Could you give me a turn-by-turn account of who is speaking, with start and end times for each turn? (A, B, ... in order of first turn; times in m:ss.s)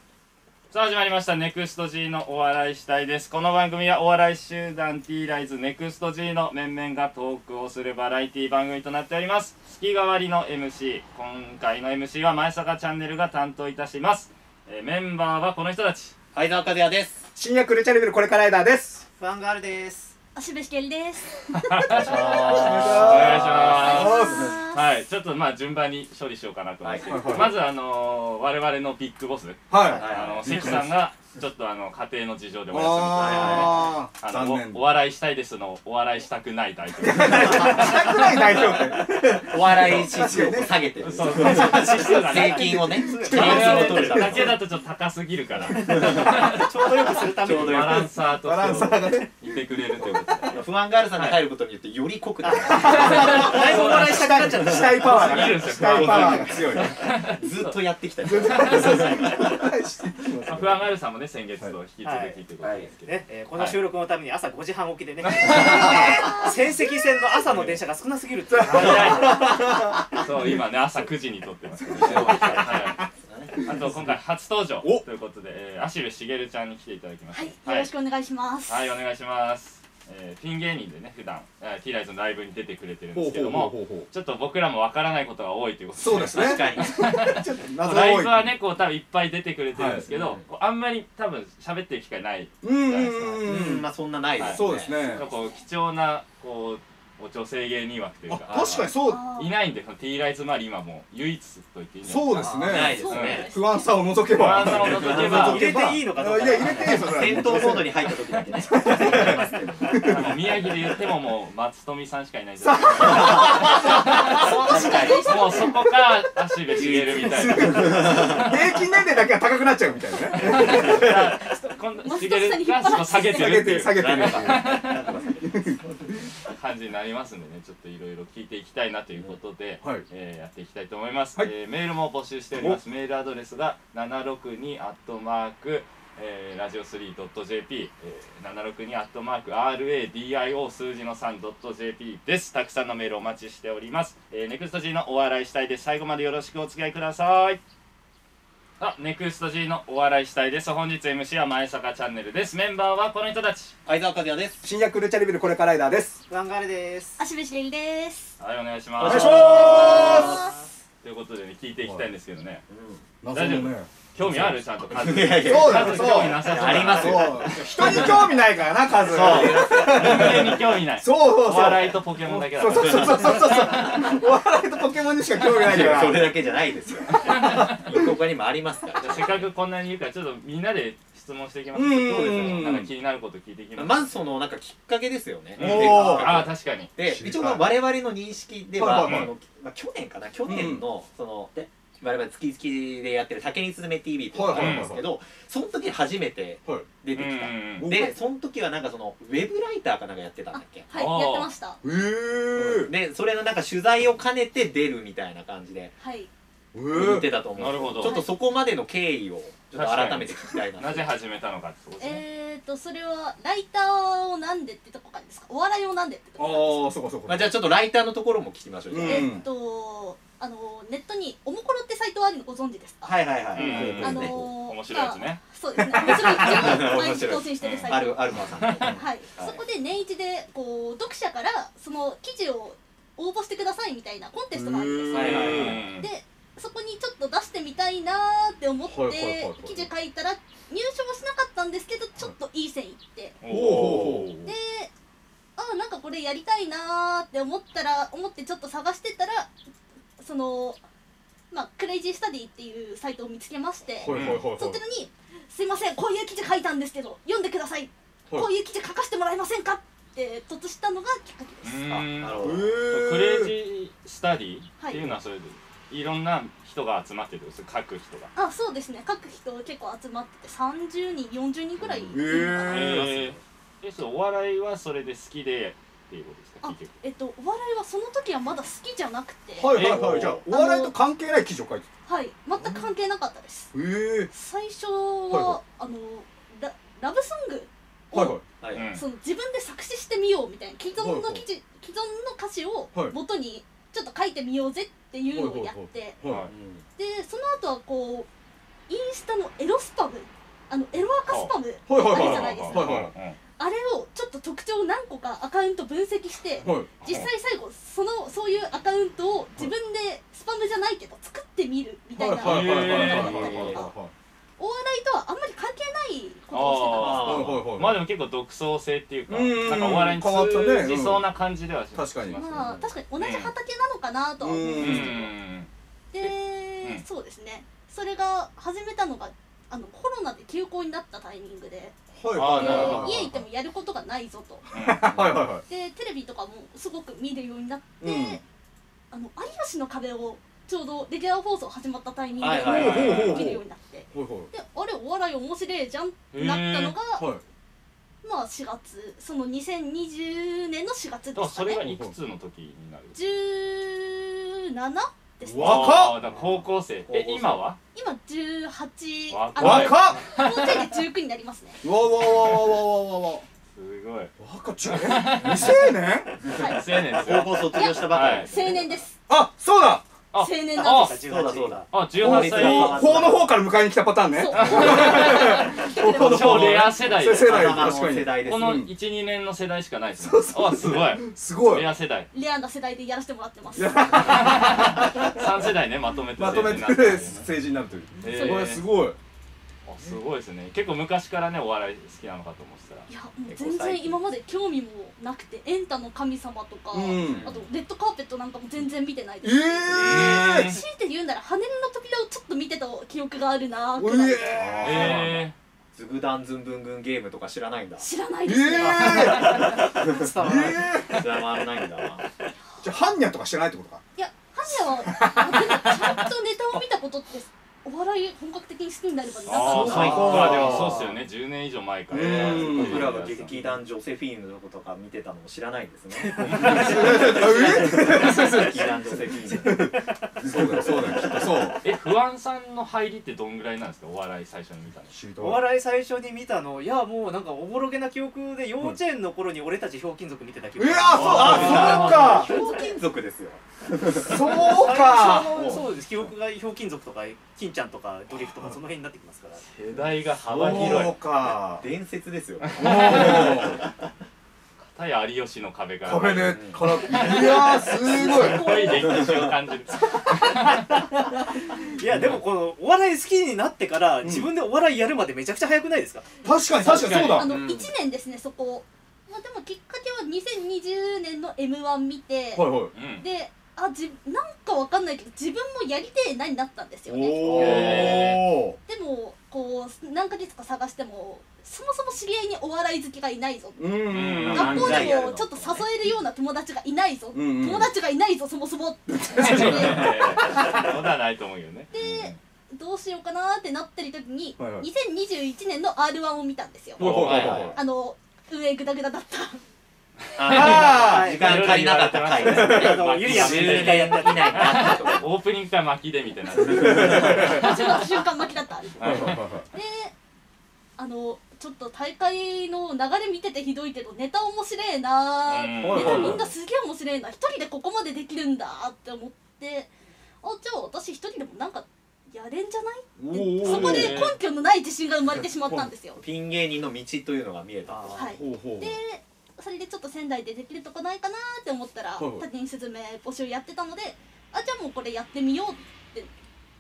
0:00.7-0:16.1 A
0:16.3-0:17.2 B
0:17.4-0:19.0 C
0:19.2-0:20.2 D
0:20.4-0:24.8 E
0:21.7-0:38.0 A
0:21.9-0:24.6 B
0:22.4-0:24.6 C
0:26.8-0:27.4 B
0:27.1-0:27.5 C
0:29.7-0:30.9 C
0:29.9-0:30.8 B
0:32.7-0:34.8 C
0:33.2-0:33.9 B
0:37.0-0:44.4 C
0:37.3-0:44.6 B
0:41.0-0:42.8 A
0:41.2-0:44.4 D
0:43.3-0:50.6 A
0:45.8-0:48.8 B
0:46.0-0:48.1 D
0:48.3-0:49.5 C
0:50.4-0:55.1 B
0:51.2-0:51.4 A
0:52.4-0:55.6 D
0:52.5-0:57.0 C
0:52.9-0:57.8 A
0:55.6-0:59.6 B
0:58.2-1:00.9 C
0:58.5-0:59.1 A
1:00.4-1:03.8 A
1:02.0-1:09.5 D
1:02.6-1:02.9 B
1:05.2-1:06.1 A
1:06.2-1:06.8 E
1:07.5-1:07.8 B
1:08.5-1:10.6 C
1:08.7-1:09.5 A
1:10.2-1:13.0 A
1:11.8-1:13.1 C
1:12.0-1:13.8 B
1:13.6-1:14.1 C
1:13.6-1:17.9 A
1:17.3-1:19.0 E
1:18.7-1:32.5 A
1:23.2-1:24.1 C
1:26.0-1:28.5 C
1:26.1-1:27.2 B
1:29.7-1:30.1 C
1:30.1-1:30.4 B
1:32.6-1:33.9 C
1:32.9-1:35.0 B
1:34.4-1:43.5 A
1:34.4-1:35.2 C
1:35.0-1:35.6 E
1:38.3-1:39.2 C
1:38.5-1:38.9 B
1:39.0-1:39.6 E
1:42.0-1:48.0 C
1:42.4-1:42.8 D
1:42.6-1:43.5 B
1:42.7-1:43.9 E
1:44.3-1:45.7 A
1:44.6-1:45.4 B
1:45.1-1:47.3 D
1:46.7-1:50.3 B
1:48.7-1:49.4 C
1:49.0-1:49.4 A
1:49.9-1:50.4 C
1:50.0-1:58.6 A
1:52.6-1:54.5 C
1:53.0-1:55.9 E
1:53.0-1:53.8 B
1:54.6-1:55.5 B
1:56.8-1:58.4 B
1:56.9-2:01.3 C
2:00.3-2:03.7 E
2:00.4-2:05.0 A
2:03.2-2:04.7 C
2:03.8-2:06.3 B
2:05.4-2:06.2 C
2:06.5-2:27.6 A
2:28.8-2:33.8 A
2:33.9-2:34.7 B
2:34.6-2:36.2 C
2:36.3-2:37.2 D
2:37.2-2:38.4 E
2:38.4-2:39.8 A
2:39.0-2:40.6 B
2:39.0-2:40.4 C
2:39.6-2:40.6 E
2:41.0-2:42.6 A
2:42.7-2:43.0 B
2:43.2-2:44.6 C
2:43.3-2:48.3 A
2:44.9-2:48.4 B
2:45.2-2:56.4 C
2:49.0-2:50.6 B
2:49.4-2:53.9 A
2:52.7-2:54.0 B
2:55.4-2:59.5 B
2:57.2-2:57.9 A
2:57.3-2:58.0 C
2:59.0-3:04.1 A
3:01.8-3:02.9 C
3:03.8-3:20.9 B
3:05.6-3:06.5 C
3:05.6-3:06.9 A
3:07.0-3:07.7 C
3:08.8-3:09.3 C
3:09.0-3:09.3 A
3:10.5-3:10.8 C
3:14.3-3:15.0 C
3:14.5-3:14.9 A
3:17.1-3:17.9 A
3:17.8-3:18.1 C
3:20.5-3:21.8 E
3:20.9-3:21.5 A
3:21.8-3:22.9 C
3:22.6-3:26.0 B
3:26.0-3:26.3 E
3:26.7-3:27.3 C
3:26.9-3:31.1 B
3:27.6-3:28.2 A
3:28.0-3:28.3 E
3:29.8-3:32.2 A
3:32.0-3:36.9 E
3:36.4-3:37.6 C
3:37.3-3:39.4 B
3:38.9-3:39.4 C
3:39.0-4:03.4 E
3:43.0-3:44.5 B
3:43.6-3:45.4 A
3:43.7-3:44.2 C
3:45.9-3:49.6 B
3:47.6-3:48.0 A
3:48.6-3:48.9 A
3:54.5-3:55.8 C
3:55.1-3:55.9 B
3:55.2-3:56.1 A
3:58.9-3:59.9 C
4:03.4-4:04.5 A
4:03.5-4:04.3 C
4:04.4-4:04.9 E
4:05.6-4:09.5 E
4:10.2-4:10.8 E
4:11.5-4:21.9 E
4:14.0-4:14.8 C
4:14.1-4:14.4 A
4:21.6-4:28.3 A
4:21.9-4:22.8 B
4:22.4-4:23.5 C
4:28.4-4:33.0 E
4:31.8-4:32.2 B
4:32.1-4:33.1 C
4:32.7-4:36.9 A
4:32.9-4:33.4 B
4:36.6-4:39.9 E
4:39.6-4:41.9 C
4:39.7-4:40.0 A
4:39.9-4:40.4 B
4:40.5-4:40.9 E
4:42.1-4:43.7 E
4:42.6-4:42.9 C
4:43.7-4:44.3 C
4:44.3-4:56.2 E
4:45.3-4:45.6 C
4:48.1-4:48.4 C
4:48.6-4:48.9 B
4:48.7-4:49.0 A
4:51.0-4:51.4 C
4:55.3-4:56.5 C
4:56.3-4:56.5 A
4:56.5-4:56.8 B
4:57.0-4:58.3 E
4:58.9-5:03.0 E
5:01.3-5:03.4 A
5:01.9-5:03.1 C
5:03.6-5:13.9 E
5:06.6-5:07.0 C
5:07.0-5:07.3 A
5:12.2-5:14.1 C
5:12.4-5:13.8 A
5:12.9-5:13.9 B
5:14.6-5:17.3 E
5:16.5-5:23.5 A
5:16.9-5:17.7 B
5:17.2-5:18.0 C
5:19.3-5:21.2 C
5:22.0-5:22.4 C
5:22.3-5:25.3 E
5:22.6-5:22.9 B
5:24.4-5:25.3 C
5:24.8-5:25.7 A
5:26.1-5:34.7 E
5:26.2-5:27.0 A
5:32.1-5:33.4 C
5:32.3-5:33.4 A
5:34.7-5:35.1 A
5:34.7-5:35.6 C
5:35.0-5:35.5 B
5:35.7-5:38.4 E
5:38.0-5:38.4 C
5:39.1-5:47.3 E
5:42.4-5:43.5 B
5:42.6-5:44.5 C
5:42.7-5:43.4 A
5:46.3-5:47.0 A
5:47.2-5:47.4 C
5:48.2-5:51.9 E
5:51.3-5:53.2 A
5:51.8-5:52.1 C
5:53.2-5:56.2 E
5:55.4-5:56.2 C
5:55.6-5:57.8 A
5:56.2-5:57.6 B
5:57.9-6:01.8 E
5:59.3-6:00.9 A
5:59.6-6:00.2 C
6:01.8-6:03.4 C
6:03.8-6:04.3 A
6:04.4-6:06.4 C
6:04.8-6:05.8 A
6:05.6-6:09.2 E
6:06.5-6:09.0 B
6:06.6-6:08.5 A
6:09.3-6:10.0 C
6:10.3-6:11.2 A
6:10.4-6:11.3 E
6:10.8-6:11.9 D
6:11.2-6:13.6 B
6:11.9-6:13.2 A
6:12.2-6:18.9 C
6:14.3-6:16.8 E
6:14.5-6:15.6 A
6:16.2-6:22.3 A
6:17.2-6:18.9 B
6:20.2-6:21.9 C
6:22.3-6:25.3 E
6:23.7-6:25.2 C
6:24.2-6:27.5 A
6:26.4-6:29.2 C
6:28.2-6:28.8 A
6:28.2-6:28.8 E
6:29.8-6:33.1 A
6:33.1-6:45.1 E
6:33.5-6:34.2 B
6:36.9-6:37.5 C
6:37.2-6:37.6 B
6:39.4-6:40.8 C
6:39.9-6:40.4 B
6:40.0-6:40.8 A
6:44.0-6:45.4 C
6:44.6-6:45.4 B
6:44.8-6:45.6 A
6:46.0-6:48.1 B
6:48.0-6:49.7 E
6:48.4-6:49.7 C
6:48.8-6:51.3 D
6:49.6-6:50.3 B
6:50.4-6:51.2 C
6:51.1-6:52.2 B
6:52.8-6:54.0 C
6:54.2-7:00.5 E
6:54.6-6:56.8 C
6:59.5-7:03.5 A
6:59.6-7:01.1 C
6:59.7-7:01.1 B
7:02.1-7:03.2 C
7:02.1-7:11.7 B
7:06.1-7:08.7 D
7:06.5-7:06.9 A
7:06.5-7:09.9 C
7:09.5-7:10.0 D
7:10.4-7:11.8 C
7:11.8-7:15.1 A
7:15.1-7:15.6 C
7:15.4-7:23.0 D
7:20.8-7:22.5 C
7:21.1-7:22.5 A
7:21.1-7:24.7 B
7:24.1-7:29.7 D
7:24.2-7:25.9 C
7:29.6-7:31.2 A
7:30.4-7:33.9 B
7:30.5-7:31.8 C
7:32.6-7:33.6 A
7:32.8-7:33.8 C
7:34.9-7:40.9 A
7:36.0-7:38.6 C
7:36.4-7:37.1 B
7:37.2-7:39.2 E
7:38.9-7:39.5 B
7:40.4-7:46.3 D
7:42.1-7:42.4 A
7:44.2-7:44.5 C
7:46.4-7:47.5 C
7:46.8-7:47.9 A
7:46.8-7:58.3 E
7:52.6-7:52.9 C
7:52.9-7:53.2 A
7:57.1-7:58.8 C
7:57.4-7:58.2 B
7:57.5-7:58.6 A
7:58.9-8:10.9 E
8:03.8-8:05.1 C
8:04.1-8:05.1 A
8:04.5-8:05.9 B
8:07.3-8:07.9 C
8:09.1-8:10.7 C
8:09.4-8:12.3 A
8:11.9-8:19.6 E
8:14.6-8:14.9 C
8:17.0-8:17.8 C
8:17.0-8:17.7 A
8:17.0-8:17.8 B
8:20.4-8:25.3 B
8:20.4-8:28.2 A
8:20.5-8:21.3 C
8:20.6-8:21.7 D
8:22.5-8:23.0 C
8:22.6-8:24.9 D
8:24.4-8:25.2 E
8:26.5-8:27.6 C
8:26.7-8:27.4 B
8:26.9-8:30.1 E
8:29.0-8:29.5 A
8:29.0-8:29.6 C
8:31.0-8:39.9 E
8:35.4-8:36.4 A
8:35.8-8:36.5 C
8:40.4-8:46.2 E
8:43.2-8:44.2 C
8:43.6-8:44.4 A
8:45.6-8:45.9 C
8:46.2-8:48.3 B
8:47.9-8:48.4 D
8:48.1-8:56.3 E
8:48.3-8:49.0 C
8:52.2-8:52.5 C